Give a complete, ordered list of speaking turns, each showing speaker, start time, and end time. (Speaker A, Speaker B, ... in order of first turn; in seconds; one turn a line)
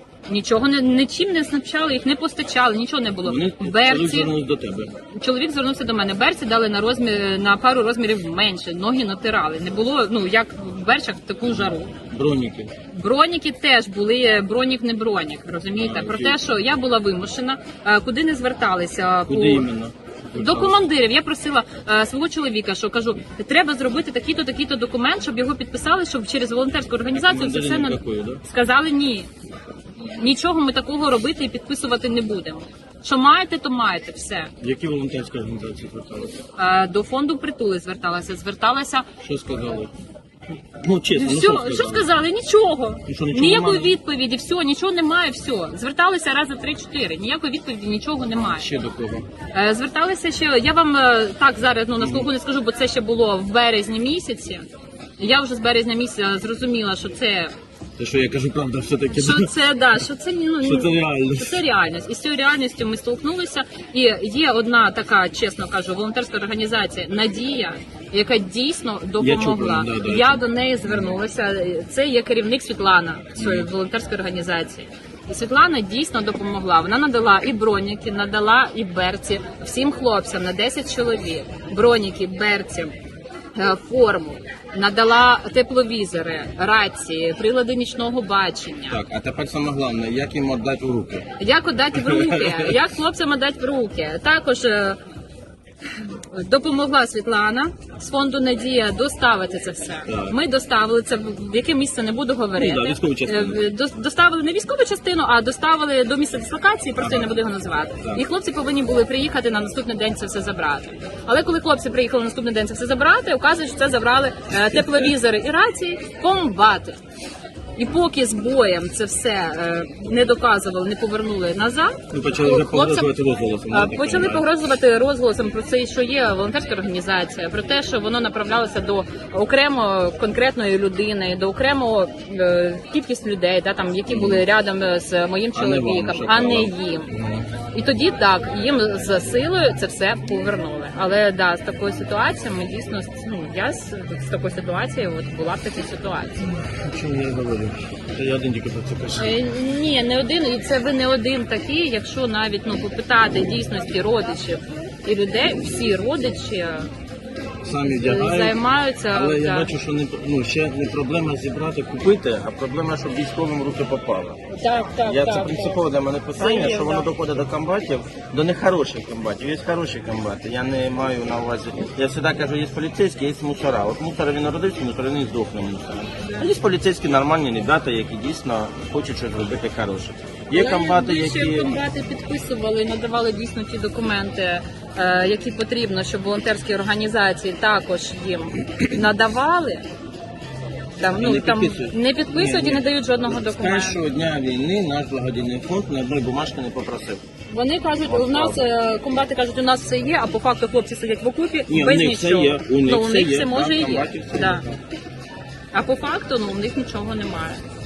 Speaker A: 0.3-4.3
Speaker B: 3.2-4.9
Speaker A: 5.1-11.9
Speaker B: 11.5-12.7
Speaker A: 12.9-19.7
Speaker B: 15.8-16.4
Speaker B: 19.3-20.8
Speaker A: 20.4-29.3
Speaker B: 27.1-28.4
Speaker A: 30.1-34.5
Speaker B: 34.6-36.4
Speaker A: 36.6-39.1
Speaker B: 39.2-39.9
Speaker B: 40.8-42.1
Speaker A: 41.1-48.7
Speaker B: 43.0-44.0
Speaker B: 48.4-49.2
Speaker A: 49.5-54.7
Speaker B: 52.0-52.3
Speaker A: 55.2-57.5
Speaker B: 58.0-59.5
Speaker A: 59.1-82.9
Speaker B: 60.6-61.6
Speaker B: 69.2-71.1
Speaker B: 73.3-73.7
Speaker A: 83.5-89.0
Speaker B: 88.9-91.3
Speaker A: 91.4-95.0
Speaker B: 91.9-92.7
Speaker A: 96.0-117.0
Speaker B: 100.0-100.4
Speaker B: 102.5-103.6
Speaker B: 107.0-107.4
Speaker A: 117.8-123.1
Speaker B: 122.1-124.4
Speaker A: 123.7-137.1
Speaker B: 134.1-134.4
Speaker B: 135.5-137.5
Speaker A: 137.7-146.4
Speaker B: 146.4-149.3
Speaker A: 149.2-156.9
Speaker B: 157.6-164.4
Speaker A: 158.0-159.7
Speaker A: 164.5-165.8
Speaker B: 165.0-181.8
Speaker A: 166.3-167.1
Speaker A: 176.2-176.5
Speaker A: 180.5-189.8
Speaker A: 191.0-194.0
Speaker B: 191.2-197.2
Speaker A: 197.5-204.6
Speaker B: 198.0-198.6
Speaker B: 201.7-204.8
Speaker A: 205.7-207.6